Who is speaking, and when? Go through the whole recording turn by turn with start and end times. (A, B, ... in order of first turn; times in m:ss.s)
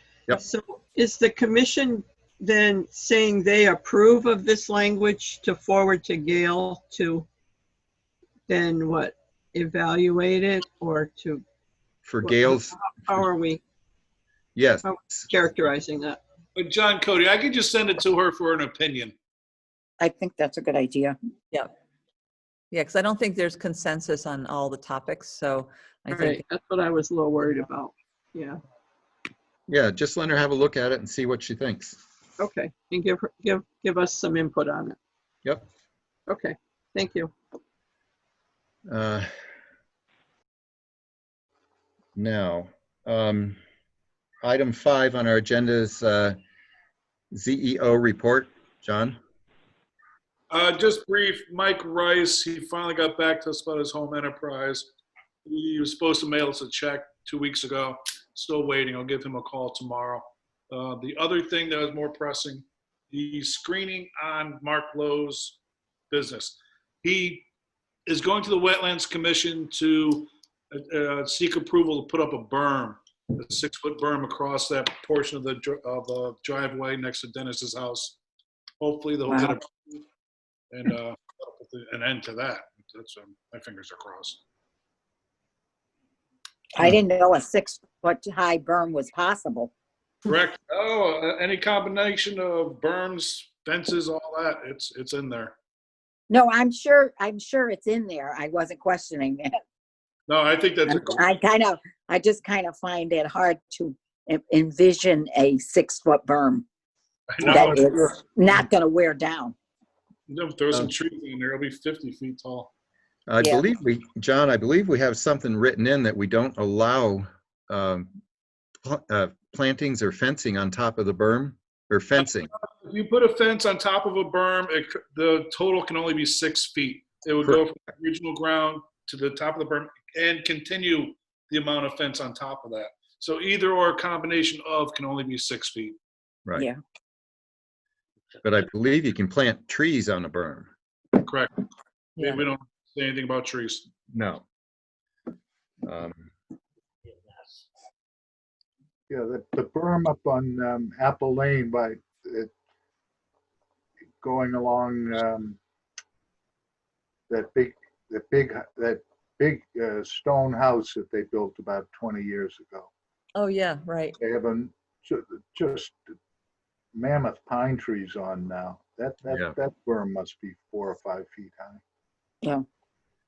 0:00.3-0:07.3 A
0:08.5-0:11.4 A
0:12.0-0:13.3 B
0:12.2-0:13.6 A
0:14.5-0:15.2 B
0:14.8-0:16.2 A
0:16.6-0:19.1 C
0:20.0-0:21.2 D
0:22.7-0:26.4 E
0:26.1-0:28.6 A
0:29.7-0:32.0 B
0:32.4-0:35.0 A
0:36.3-0:37.3 A
0:38.9-0:39.3 B
0:42.1-0:43.6 B
0:44.4-0:46.4 B
0:47.3-0:49.2 B
0:50.5-0:54.9 C
0:55.4-1:05.6 C
1:06.1-1:07.4 C
1:08.1-1:18.2 C
1:18.8-1:20.0 C
1:19.3-1:19.5 D
1:20.7-1:24.4 C
1:26.8-1:29.7 D
1:30.2-1:35.5 C
1:36.3-1:39.5 D
1:40.3-1:41.2 C
1:40.9-1:46.6 D
1:47.3-1:47.8 C
1:47.4-1:49.5 D
1:47.4-1:48.2 F
1:50.3-1:52.7 C
1:53.3-1:58.1 B
1:58.8-2:02.5 B
2:02.2-2:16.0 C
2:18.4-2:20.7 B
2:21.2-2:21.5 C
2:22.2-2:23.8 C
2:22.2-2:22.4 E
2:24.1-2:24.4 B
2:25.8-2:26.3 B
2:29.1-2:32.5 F
2:34.2-2:35.6 F
2:37.3-2:42.9 F
2:43.3-2:44.2 E
2:44.2-2:46.0 F
2:46.9-2:51.8 F
2:49.3-2:49.5 B